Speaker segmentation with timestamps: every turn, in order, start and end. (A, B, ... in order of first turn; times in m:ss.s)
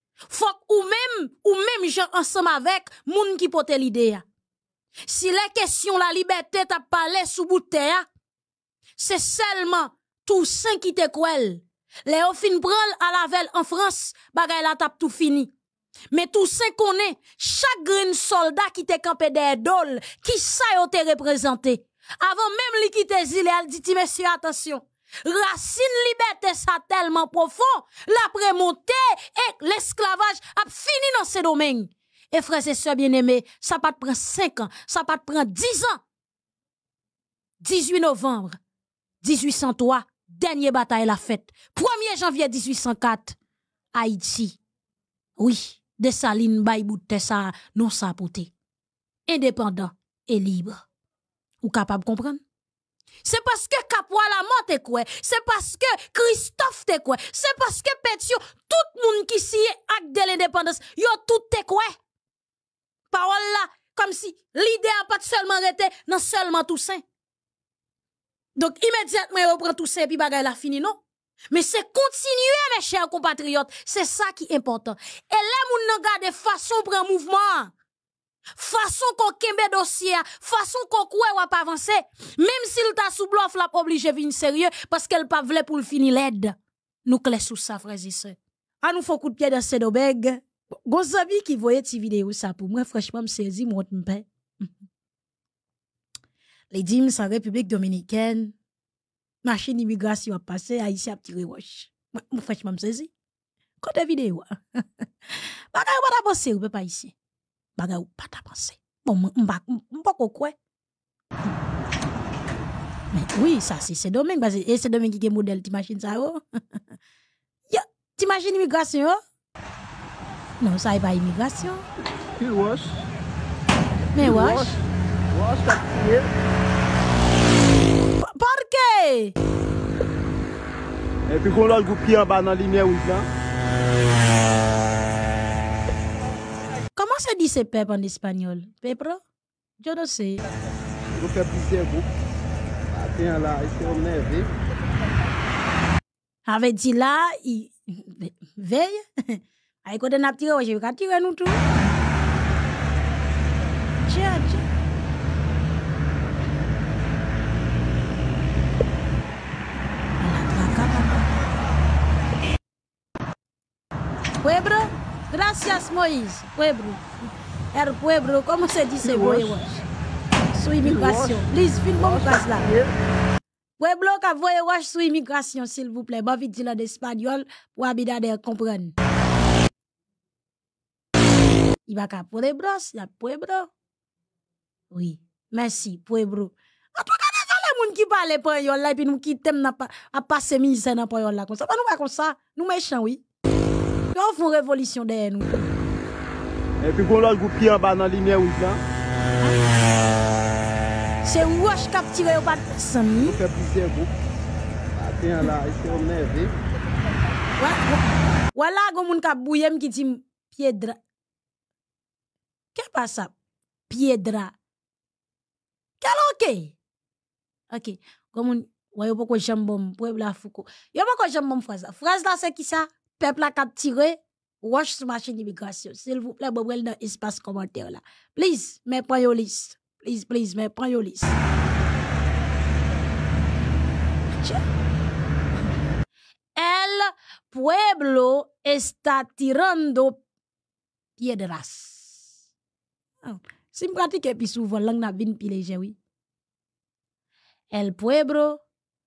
0:00.3-0:04.2 A
0:05.1-0:08.1 A
0:09.0-0:15.5 A
0:16.1-0:36.0 A
0:37.6-0:38.6 A
0:39.2-0:43.4 A
0:43.9-0:44.6 A
0:45.4-0:48.5 A
0:49.3-0:50.8 A
0:51.6-0:52.4 A
0:53.2-1:02.0 A
1:03.1-1:07.0 A
1:08.6-1:17.7 A
1:18.6-1:26.6 A
1:27.1-1:34.7 A
1:36.7-1:38.6 A
1:39.4-1:43.1 A
1:43.8-1:47.1 A
1:47.8-1:50.6 A
1:53.1-1:56.4 A
1:57.7-1:59.2 A
2:00.6-2:01.8 A
2:02.4-2:03.0 B
2:04.1-2:04.8 A
2:04.2-2:04.8 B
2:05.3-2:06.3 B
2:08.2-2:09.3 A
2:11.3-2:13.3 B
2:17.0-2:19.2 A
2:19.8-2:20.4 A
2:21.2-2:22.1 B
2:22.9-2:24.5 B
2:26.5-2:31.6 A
2:34.0-2:34.6 A
2:40.2-2:41.3 A
2:44.4-2:47.1 A
2:47.7-2:49.8 A
2:49.1-2:49.5 B
2:50.5-2:52.6 A
2:50.8-2:51.5 B
2:52.0-2:52.9 B
2:53.8-2:59.0 A
3:01.9-3:03.7 A
3:04.9-3:13.2 A
3:14.1-3:15.7 A
3:16.8-3:18.8 B
3:21.2-3:23.4 A
3:23.2-3:24.1 B
3:25.0-3:26.5 B
3:27.6-3:31.0 A
3:32.8-3:33.3 A
3:33.9-3:34.6 A
3:36.0-3:36.8 A
3:37.7-3:51.4 A
3:54.4-3:54.6 A
3:56.6-4:00.2 A
4:01.2-4:02.3 A
4:03.2-4:06.0 A
4:07.7-4:08.6 A